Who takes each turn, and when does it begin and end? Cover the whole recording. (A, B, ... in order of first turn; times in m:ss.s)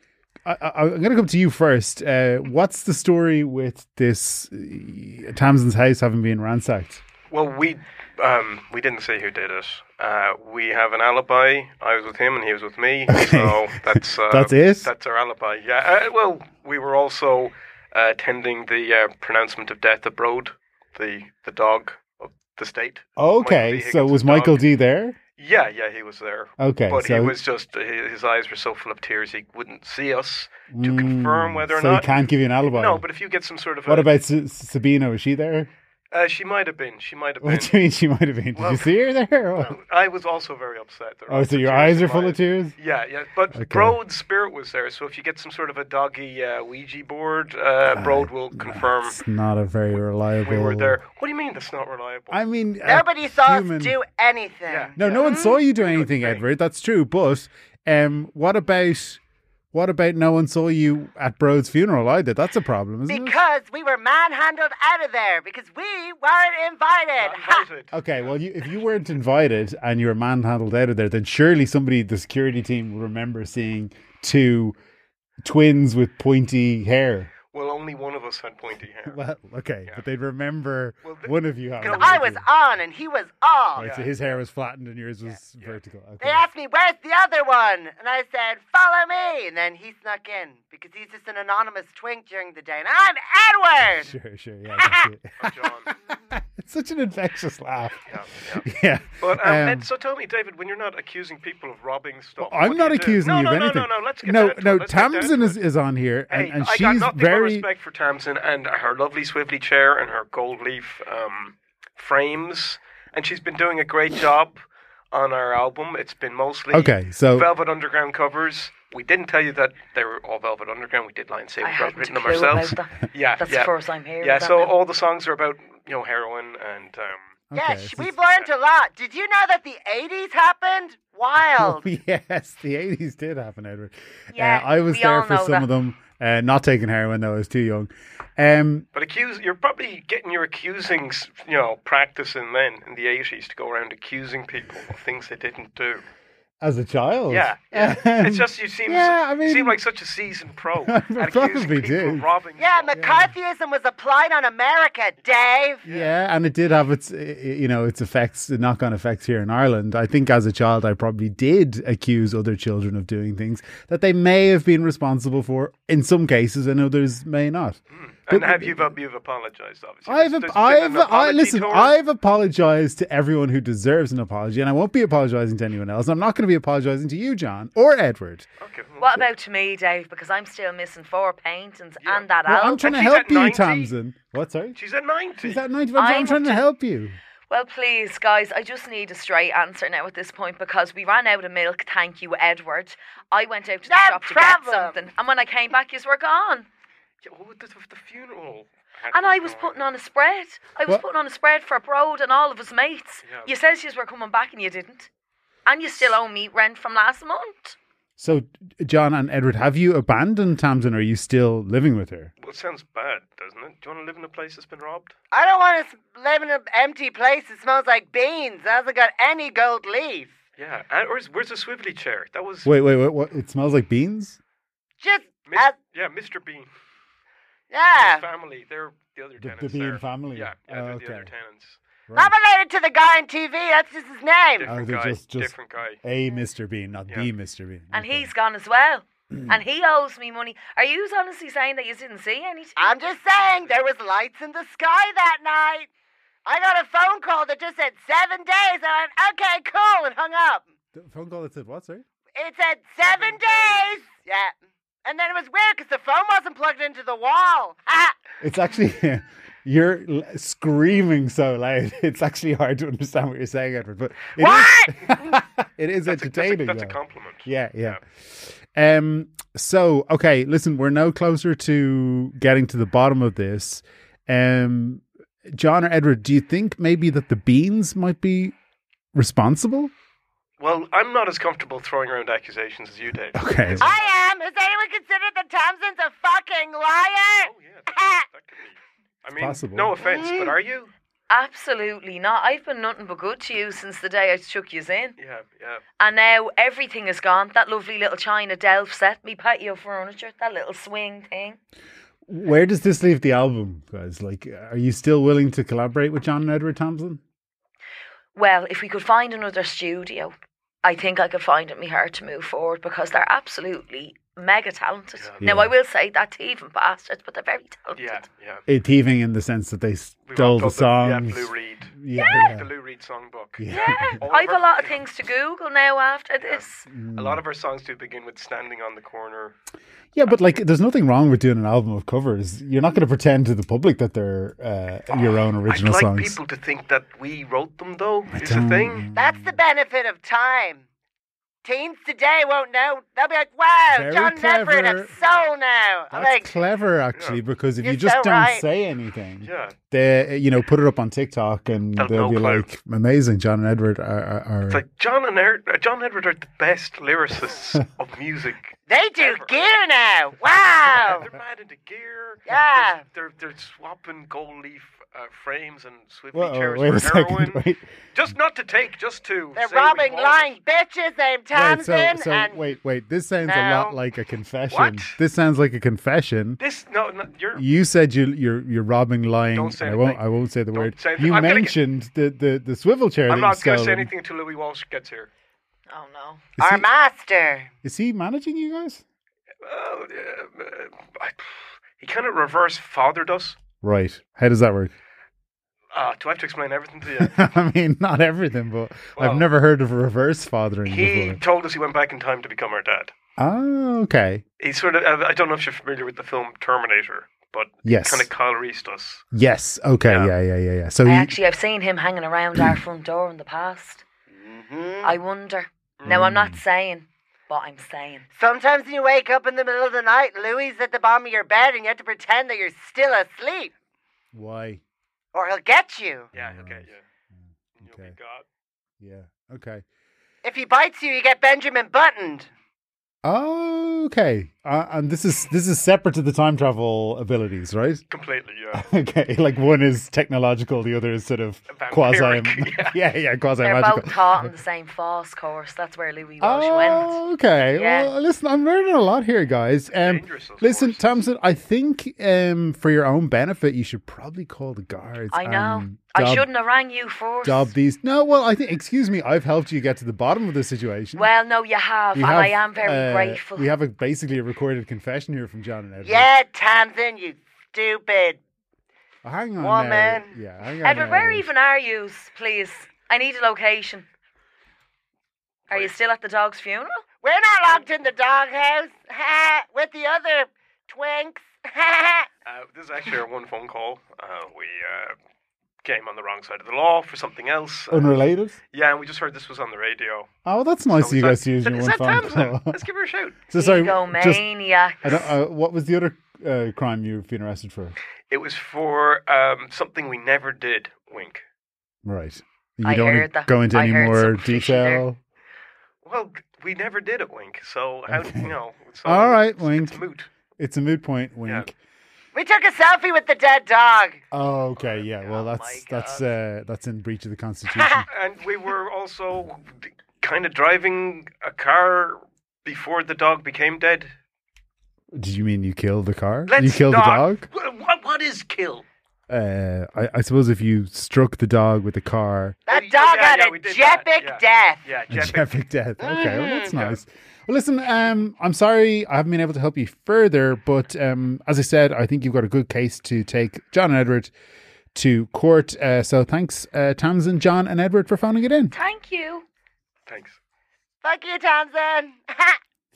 0:00.4-0:07.0 A
0:07.3-0:24.7 B
0:13.1-0:13.6 A
0:14.2-0:14.9 A
0:23.2-0:25.2 A
0:25.4-0:34.1 B
0:26.6-0:27.4 A
0:30.7-0:33.0 A
0:33.9-0:35.7 A
0:36.1-0:37.8 B
0:37.4-0:39.8 A
0:38.6-0:38.9 B
0:39.6-0:49.2 B
0:41.3-0:42.8 A
0:43.5-0:44.0 A
0:47.9-0:51.0 A
0:50.4-0:52.4 B
0:52.3-0:54.0 A
0:52.8-0:55.6 C
0:54.7-0:56.4 B
0:55.0-0:59.2 A
0:59.7-1:03.4 A
1:03.1-1:07.7 C
1:07.2-1:08.4 B
1:07.9-1:14.8 A
1:15.4-1:17.3 A
1:17.5-1:19.2 B
1:19.1-1:22.4 A
1:21.0-1:22.2 B
1:21.8-1:23.8 C
1:23.8-1:26.5 A
1:23.8-1:24.1 B
1:26.2-1:34.1 C
1:33.8-1:39.9 A
1:34.8-1:35.1 C
1:35.4-1:35.9 B
1:38.1-1:38.6 B
1:39.2-1:45.6 B
1:42.4-1:47.7 A
1:46.3-1:54.6 B
1:55.1-2:07.3 B
1:56.7-1:57.5 A
2:01.6-2:04.8 D
2:07.5-2:08.2 A
2:07.6-2:11.8 C
2:11.6-2:18.9 A
2:14.3-2:15.7 D
2:18.9-2:26.1 B
2:26.6-2:29.8 A
2:27.3-2:33.0 B
2:30.8-2:32.3 A
2:32.6-2:35.8 C
2:32.9-2:33.3 A
2:35.8-2:36.1 B
2:35.8-2:48.9 A
2:47.9-2:52.0 B
2:50.1-2:58.5 A
2:58.6-2:59.2 B
2:59.0-3:02.9 D
3:02.0-3:04.0 B
3:02.4-3:04.8 A
3:04.8-3:05.6 B
3:05.4-3:07.2 A
3:06.0-3:06.7 D
3:07.5-3:16.7 D
3:13.9-3:15.0 C
3:17.2-3:19.9 B
3:19.1-3:25.1 D
3:23.2-3:23.5 B
3:25.7-3:27.8 D
3:28.2-3:32.3 A
3:32.4-3:35.1 B
3:35.3-3:40.3 C
3:40.6-3:42.7 B
3:42.6-3:44.4 A
3:45.0-3:45.8 C
3:45.4-3:46.7 B
3:47.7-3:48.3 C
3:47.9-3:51.8 B
3:49.4-3:51.3 A
3:52.1-3:52.3 A
3:52.2-3:54.7 C
3:54.6-3:56.0 B
3:54.6-3:58.3 A
3:57.9-4:03.0 D
4:02.8-4:05.9 C
4:03.4-4:03.7 B
4:06.4-4:10.6 C
4:11.0-4:12.0 A
4:12.4-4:14.5 C
4:13.1-4:13.9 B
4:15.0-4:18.1 C
4:18.4-4:38.6 A
4:24.4-4:25.2 C
4:26.0-4:28.0 B
4:39.1-4:39.9 A
4:40.6-4:44.2 B
4:43.4-4:43.9 A
4:43.8-4:48.2 C
4:47.4-4:50.9 B
4:49.3-4:50.0 A
4:50.0-4:50.6 C
4:51.3-4:55.2 D
4:55.2-4:55.8 B
4:56.0-5:01.6 D
5:02.3-5:07.2 A
5:08.4-5:18.2 D
5:15.2-5:15.4 B
5:15.4-5:15.7 A
5:18.0-5:18.6 B
5:18.7-5:22.7 A
5:20.3-5:25.1 B
5:22.2-5:22.5 D
5:23.6-5:24.2 A
5:23.7-5:26.8 D
5:26.4-5:29.6 B
5:26.9-5:27.4 A
5:30.2-5:36.4 A
5:35.7-5:39.1 B
5:38.3-5:39.6 A
5:39.2-5:40.8 C
5:41.6-5:46.5 C
5:43.9-5:45.2 A
5:45.2-5:45.5 B
5:46.1-5:54.8 A
5:47.1-5:47.4 B
5:47.8-5:48.6 C
5:49.4-5:49.8 B
5:52.0-5:52.7 B
5:54.7-5:59.7 B
5:58.9-6:01.3 C
6:00.8-6:10.6 B
6:02.5-6:03.0 C
6:06.3-6:07.8 A
6:09.6-6:12.6 C
6:11.5-6:16.6 A
6:13.4-6:14.0 C
6:14.7-6:15.2 B
6:16.6-6:17.7 B
6:17.6-6:24.1 A
6:19.5-6:21.8 B
6:23.3-6:25.3 B
6:25.9-6:26.4 D
6:26.6-6:26.9 A
6:26.6-6:27.7 C
6:27.8-6:29.0 A
6:29.6-6:33.6 B
6:33.8-6:34.9 A
6:35.9-6:37.4 B
6:37.2-6:41.4 A
6:39.2-6:39.5 B
6:40.9-6:43.1 B
6:43.4-6:44.4 A
6:44.6-6:49.2 B
6:47.8-6:48.3 A
6:49.3-6:51.4 A
6:50.1-6:50.3 B
6:51.0-6:54.0 D
6:54.3-6:55.2 C
6:55.0-6:58.2 D
6:56.1-6:56.6 A
6:58.4-7:03.7 C
7:04.3-7:04.8 A
7:05.3-7:06.3 C
7:06.3-7:07.0 B
7:06.3-7:08.2 A
7:07.8-7:08.5 B
7:09.0-7:09.8 A
7:10.4-7:12.5 C
7:13.2-7:18.0 A
7:18.1-7:18.8 B
7:18.7-7:24.5 A
7:21.7-7:23.0 B
7:23.6-7:28.1 D
7:26.4-7:36.5 A
7:29.9-7:31.2 B
7:35.3-7:37.7 D
7:37.4-7:41.3 A
7:41.2-7:43.7 D
7:42.2-7:46.3 A
7:46.0-7:48.4 C
7:49.2-7:51.5 A
7:49.6-7:50.4 C
7:50.8-7:54.1 D
7:55.7-7:56.0 B
7:55.7-7:57.0 D
7:57.2-8:02.3 C
8:02.4-8:05.2 B
8:05.8-8:08.2 B
8:07.9-8:08.6 A
8:08.7-8:10.3 B
8:10.4-8:12.8 A
8:10.9-8:13.4 B
8:13.5-8:14.5 A
8:13.6-8:15.4 D
8:15.0-8:18.0 A
8:18.3-8:21.4 B
8:22.0-8:25.2 A
8:22.8-8:25.1 D
8:26.0-8:30.3 B
8:28.1-8:30.0 A
8:30.6-8:31.8 A
8:31.4-8:31.7 B
8:32.3-8:34.2 C
8:34.3-8:38.1 A
8:34.8-8:36.3 D
8:37.7-8:38.0 C
8:38.1-8:44.1 B
8:45.1-8:47.5 A
8:46.5-8:48.8 B
8:49.3-8:52.6 A
8:52.7-8:54.9 C
8:52.7-8:55.6 B
8:55.1-9:04.3 A
8:56.0-8:56.7 C
8:56.7-8:57.0 B
9:04.9-9:08.7 A
9:08.7-9:09.4 D
9:10.1-9:10.4 B
9:11.0-9:12.6 C